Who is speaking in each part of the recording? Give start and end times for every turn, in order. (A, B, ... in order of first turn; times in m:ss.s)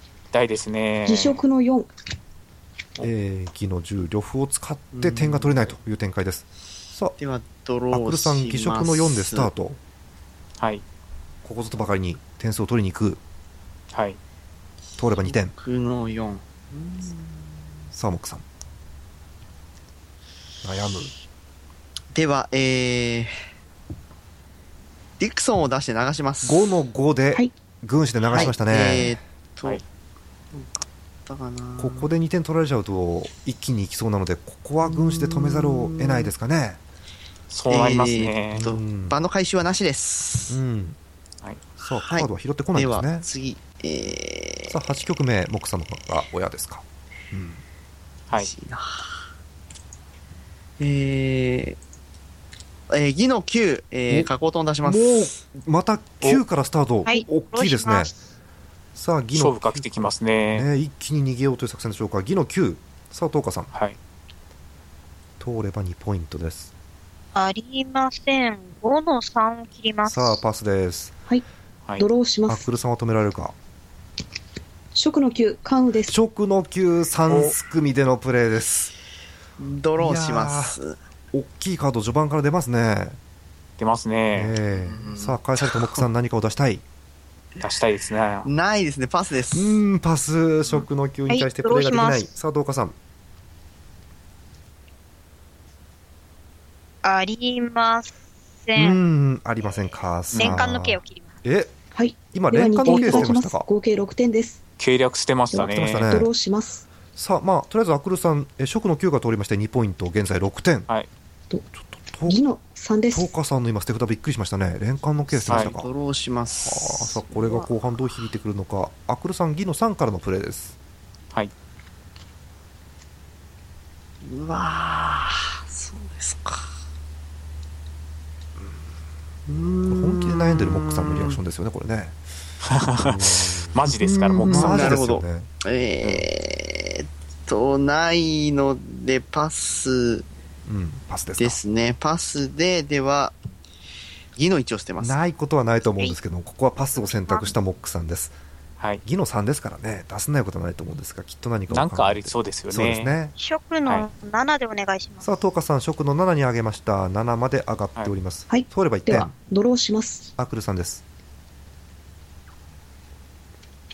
0:00.3-0:01.4 A
0:01.0-0:01.9 B
0:03.0-0:07.1 C
0:04.9-0:05.6 D
0:07.2-0:09.5 D
0:07.9-0:09.8 C
0:10.6-0:10.8 A
0:11.4-0:13.2 C
0:13.9-0:14.2 A
0:15.0-0:15.5 C
0:15.3-0:17.6 D
0:17.9-0:18.4 C
0:20.6-0:21.1 C
0:22.1-0:23.3 D
0:25.2-0:26.7 D
0:26.4-0:29.2 C
0:28.3-0:29.8 D
0:30.5-0:32.1 D
0:31.8-0:36.8 C
0:34.8-0:36.3 D
0:37.5-0:38.6 A
0:37.7-0:40.6 D
0:38.5-0:39.2 C
0:40.5-0:41.0 C
0:41.8-0:44.8 D
0:41.8-0:43.3 C
0:44.7-0:47.6 C
0:48.3-0:49.2 D
0:50.8-0:51.8 D
0:52.9-0:55.4 D
0:54.8-0:58.1 C
0:57.0-0:58.1 E
0:58.9-1:03.7 C
0:59.3-1:00.7 A
1:05.4-1:06.7 C
1:07.3-1:10.4 E
1:10.0-1:11.1 C
1:12.0-1:12.7 B
1:12.5-1:13.5 C
1:14.9-1:16.2 B
1:16.1-1:18.9 C
1:17.3-1:17.5 A
1:19.6-1:21.0 D
1:20.0-1:20.8 C
1:21.3-1:23.2 C
1:23.8-1:24.5 A
1:24.3-1:26.8 C
1:24.7-1:26.0 D
1:27.6-1:28.5 A
1:28.4-1:29.8 D
1:29.5-1:32.9 C
1:31.3-1:32.3 E
1:37.0-1:38.1 E
1:38.6-1:39.0 E
1:38.7-1:41.7 C
1:40.3-1:40.6 A
1:40.3-1:41.3 E
1:41.9-1:44.6 B
1:42.3-1:43.6 C
1:42.8-1:43.3 A
1:44.8-1:46.1 A
1:45.5-1:46.8 B
1:45.5-1:46.3 C
1:47.2-1:50.9 C
1:51.8-1:52.4 C
1:52.2-1:53.3 B
1:53.1-1:55.9 C
1:55.3-1:57.7 D
1:55.5-1:55.7 A
1:56.6-2:00.7 C
2:04.2-2:06.7 D
2:09.5-2:11.4 D
2:09.9-2:12.2 C
2:12.6-2:15.0 A
2:13.0-2:13.8 C
2:13.9-2:20.3 D
2:14.5-2:15.5 C
2:20.7-2:21.6 C
2:21.4-2:23.3 D
2:24.4-2:25.2 D
2:25.0-2:28.3 C
2:26.9-2:27.5 E
2:29.0-2:33.3 C
2:31.7-2:33.1 A
2:33.4-2:35.3 E
2:35.2-2:39.3 C
2:38.5-2:40.3 B
2:40.4-2:41.0 C